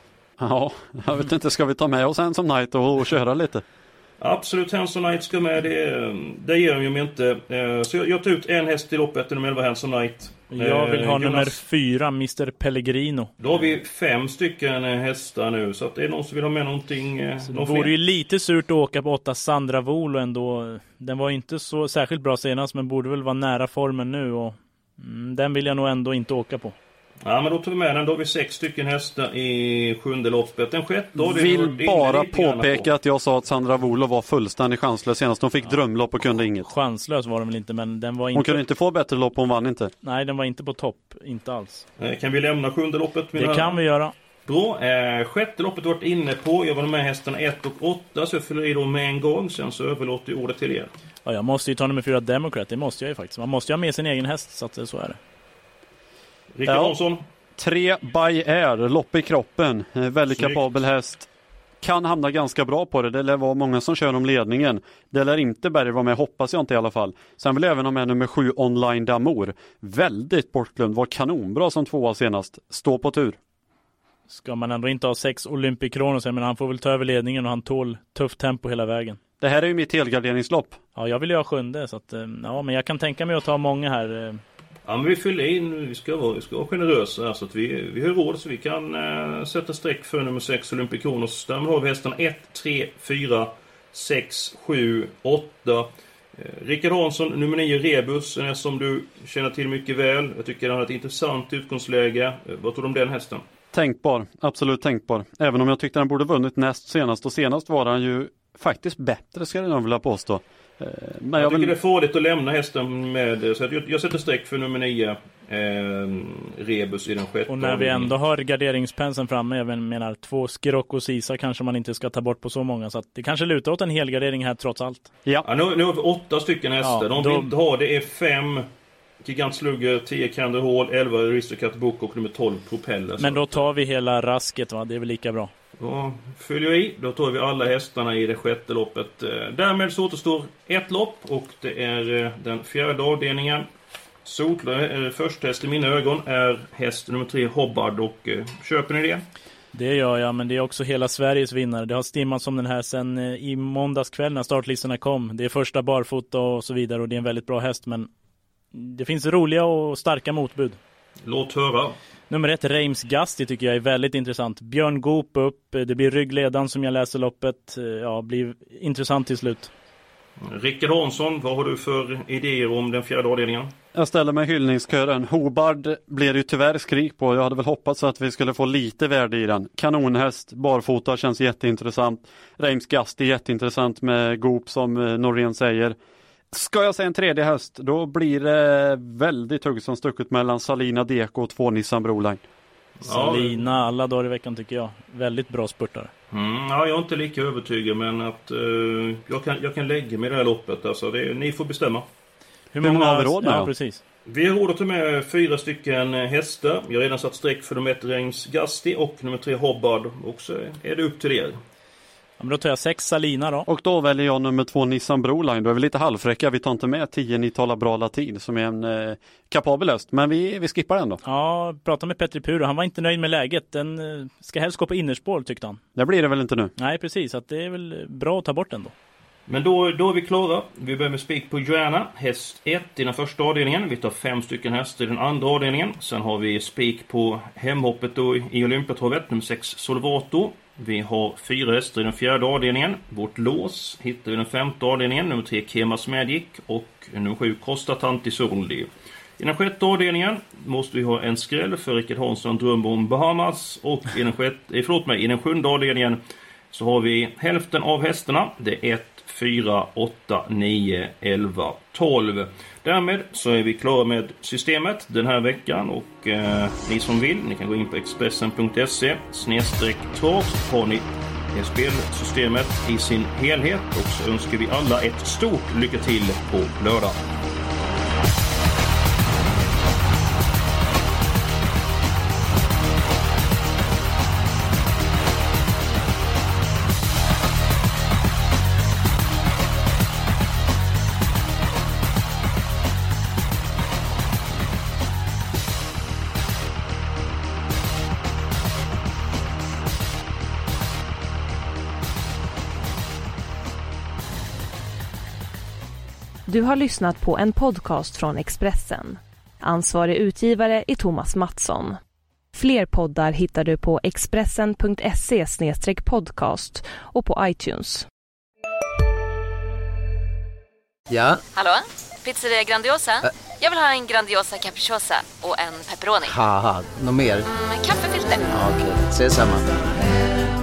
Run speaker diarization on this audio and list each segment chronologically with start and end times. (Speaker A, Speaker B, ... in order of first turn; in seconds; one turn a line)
Speaker A: 0.4-3.6
Speaker B: 4.2-11.6
Speaker C: 10.5-13.3
Speaker B: 13.4-17.9
Speaker C: 17.5-26.8
Speaker B: 27.2-32.9
Speaker A: 31.2-36.7
Speaker C: 36.6-38.6
Speaker A: 38.3-39.9
Speaker C: 40.0-41.8
Speaker B: 42.0-43.8
Speaker C: 43.4-44.1
Speaker B: 44.5-50.9
Speaker C: 51.2-55.2
Speaker B: 56.5-57.2
Speaker A: 56.7-57.0
Speaker A: 57.6-61.3
Speaker B: 60.3-60.7
Speaker A: 61.8-73.4
Speaker C: 74.3-79.2
Speaker A: 79.4-80.8
Speaker C: 81.0-84.4
Speaker B: 84.9-103.4
Speaker A: 103.7-111.7
Speaker B: 111.4-118.1
Speaker C: 117.5-125.1
Speaker B: 125.4-128.7
Speaker C: 126.8-127.5
Speaker B: 129.2-133.7
Speaker C: 133.2-135.5
Speaker B: 135.8-143.7
Speaker B: 144.2-149.2
Speaker C: 149.7-158.1
Speaker C: 158.7-160.8
Speaker B: 161.2-162.0
Speaker C: 162.3-169.7
Speaker B: 170.4-173.7
Speaker A: 173.9-186.0
Speaker A: 186.5-192.4
Speaker B: 193.0-193.6
Speaker C: 193.0-196.1
Speaker B: 196.3-202.1
Speaker C: 202.7-204.0
Speaker A: 202.8-203.7
Speaker B: 204.3-211.6
Speaker C: 212.4-213.7
Speaker A: 213.7-221.2
Speaker C: 221.2-225.8
Speaker A: 226.0-226.7
Speaker C: 226.8-228.9
Speaker B: 229.5-256.2
Speaker B: 256.7-277.2
Speaker D: 306.5-312.0
Speaker D: 312.6-318.1
Speaker E: 321.1-321.4
Speaker F: 321.5-326.4
Speaker E: 326.2-327.5
Speaker F: 327.5-328.6
Speaker E: 328.5-330.0